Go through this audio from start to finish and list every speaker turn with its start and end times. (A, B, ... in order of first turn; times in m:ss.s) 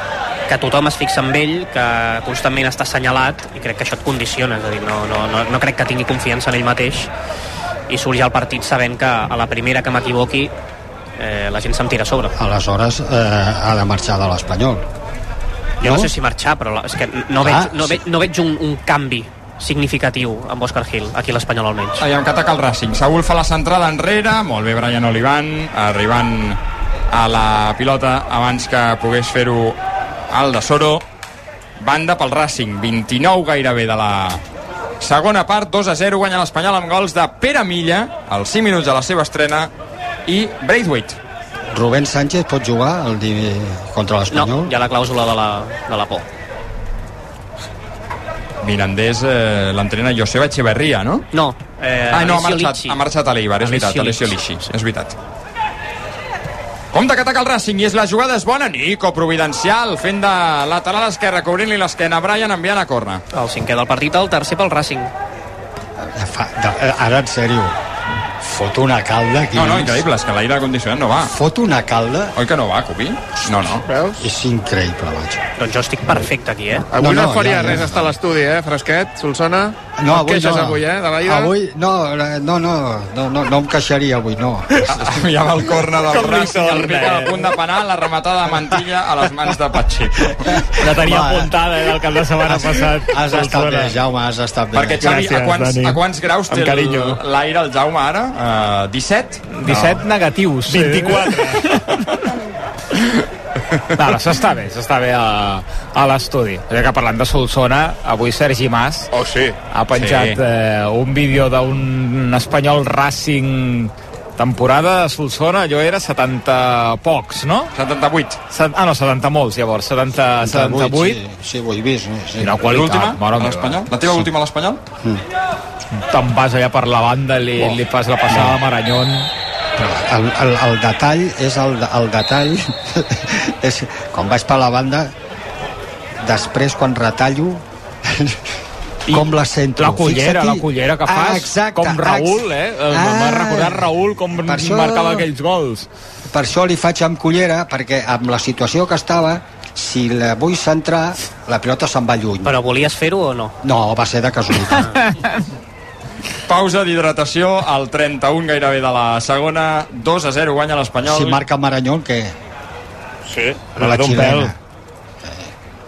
0:00.5-0:07.1 A
0:07.9-0:10.5 A
0:11.2-0:12.3 A
0:12.4-0:14.8 B
0:15.8-0:22.0 A
0:15.8-0:16.1 B
0:17.4-0:18.0 B
0:22.0-0:26.6 C
0:27.1-0:29.8 C
0:30.3-0:31.0 C
0:31.8-0:34.4 C
0:35.0-0:39.7 C
0:40.2-0:41.2 C
0:41.7-0:44.7 B
0:44.3-0:46.2 A
0:48.6-0:51.3 C
0:51.3-0:53.0 A
0:52.1-0:55.2 C
0:53.6-0:54.3 A
0:56.9-1:03.2 C
1:03.3-1:05.1 A
1:06.0-1:07.8 B
1:08.4-1:10.0 B
1:09.5-1:11.3 C
1:11.3-1:12.3 B
1:12.4-1:13.8 C
1:13.8-1:14.2 D
1:14.2-1:15.4 B
1:15.6-1:16.9 A
1:16.9-1:21.5 D
1:17.0-1:18.1 B
1:20.0-1:25.1 B
1:24.9-1:30.5 C
1:26.1-1:27.5 E
1:30.5-1:35.1 B
1:30.8-1:33.9 E
1:34.7-1:39.4 C
1:35.0-1:37.2 D
1:39.6-1:42.2 E
1:39.6-1:40.0 D
1:40.7-1:41.8 D
1:44.0-1:49.1 E
1:49.1-1:49.6 D
1:49.7-1:57.7 E
1:49.9-1:50.4 C
1:57.7-1:58.4 C
1:58.5-2:01.2 E
2:00.4-2:02.6 B
2:02.4-2:03.8 E
2:02.7-2:04.8 C
2:06.0-2:09.3 E
2:08.3-2:08.6 B
2:09.8-2:15.1 B
2:16.2-2:18.4 B
2:19.1-2:25.9 E
2:19.1-2:25.3 B
2:26.3-2:32.6 B
2:32.4-2:33.5 A
2:33.6-2:35.0 B
2:35.0-2:35.4 E
2:36.5-2:41.4 C
2:41.0-2:42.3 B
2:43.3-2:44.2 D
2:43.8-2:44.6 B
2:43.8-2:44.5 E
2:45.2-2:45.5 B